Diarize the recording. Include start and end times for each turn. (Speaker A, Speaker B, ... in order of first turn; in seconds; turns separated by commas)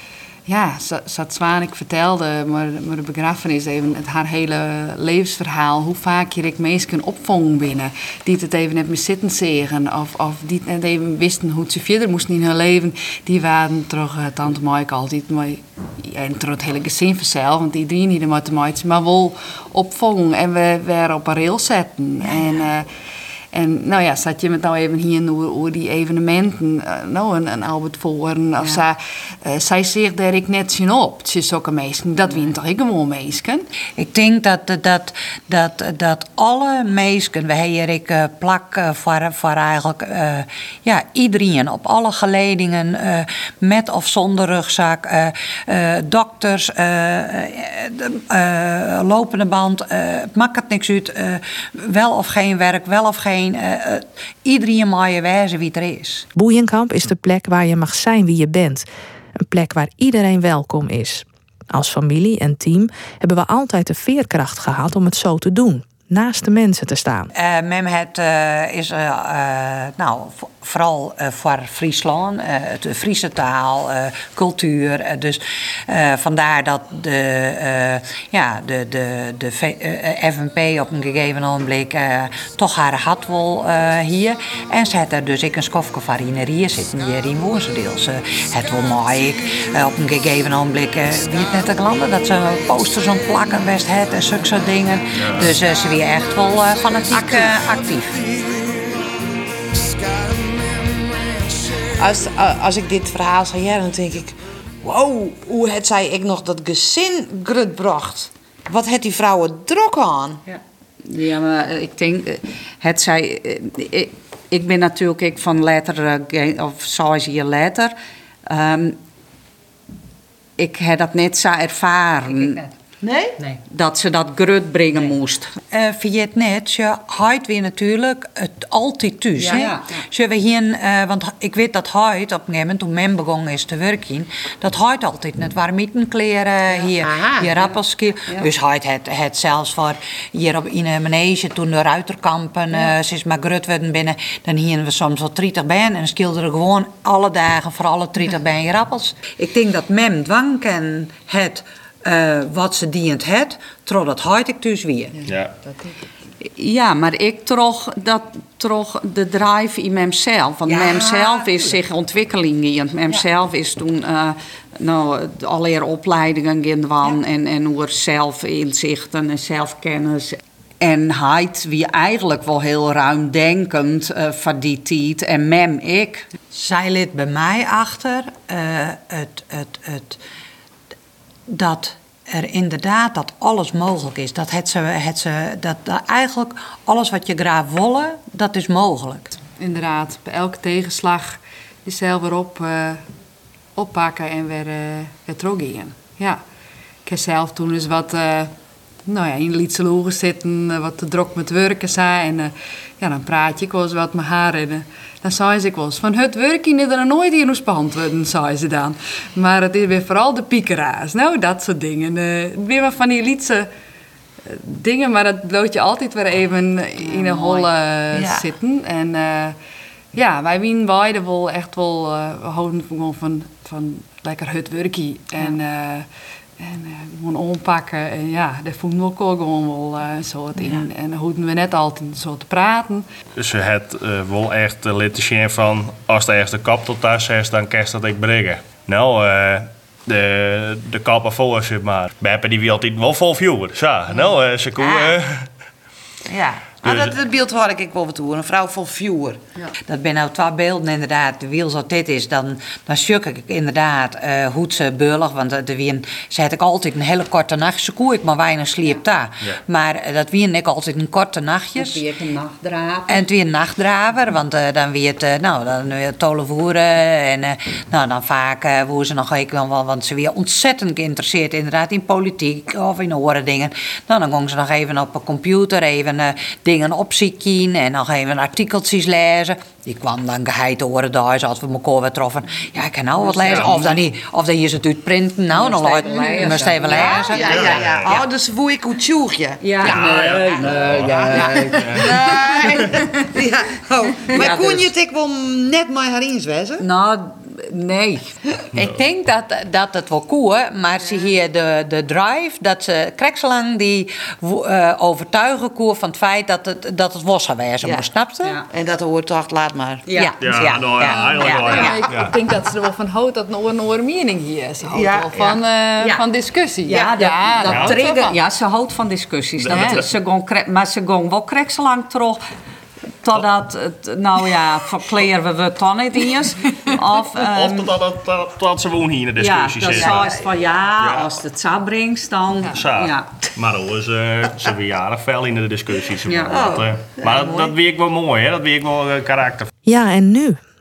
Speaker A: 0.5-22.9, Speaker A: 23.5-33.6, Speaker B: 34.0-56.3, Speaker C: 56.3-58.9, Speaker C: 59.4-67.3, Speaker B: 67.3-98.3, Speaker D: 101.8-110.4, Speaker E: 110.5-117.9, Speaker E: 118.5-119.0, Speaker E: 120.6-122.7, Speaker D: 123.0-123.3, Speaker E: 123.4-125.5, Speaker B: 125.7-155.2, Speaker E: 129.4-129.9, Speaker D: 137.0-137.5, Speaker F: 155.2-155.5, Speaker E: 156.4-176.3, Speaker B: 160.7-161.4, Speaker B: 176.5-180.2, Speaker B: 181.5-189.3, Speaker A: 189.6-193.0, Speaker A: 193.8-196.4, Speaker A: 197.0-198.5, Speaker A: 199.1-213.7, Speaker A: 214.4-219.6, Speaker E: 217.0-217.7, Speaker D: 218.1-218.4, Speaker A: 220.1-233.0, Speaker F: 233.3-245.5, Speaker D: 244.8-245.2, Speaker D: 246.2-249.4, Speaker F: 246.8-247.1, Speaker B: 249.8-262.0, Speaker E: 261.8-263.2, Speaker B: 263.1-287.9, Speaker E: 283.4-283.7, Speaker E: 285.5-287.8, Speaker D: 286.9-296.8, Speaker F: 287.5-288.1, Speaker E: 289.6-293.0, Speaker F: 289.8-292.1, Speaker E: 294.2-294.9, Speaker E: 296.8-298.4, Speaker B: 298.7-308.6, Speaker D: 308.7-312.1, Speaker E: 310.1-310.3, Speaker B: 310.1-311.8, Speaker F: 310.4-312.3, Speaker A: 311.3-318.4, Speaker D: 314.9-315.4, Speaker E: 316.8-322.4, Speaker F: 317.6-318.0, Speaker F: 319.6-320.0, Speaker A: 319.7-320.0, Speaker E: 323.2-327.9, Speaker F: 327.4-330.3, Speaker E: 329.4-333.4, Speaker F: 331.0-331.3, Speaker F: 332.7-339.7, Speaker E: 336.2-336.7, Speaker D: 336.5-337.7, Speaker C: 339.8-340.6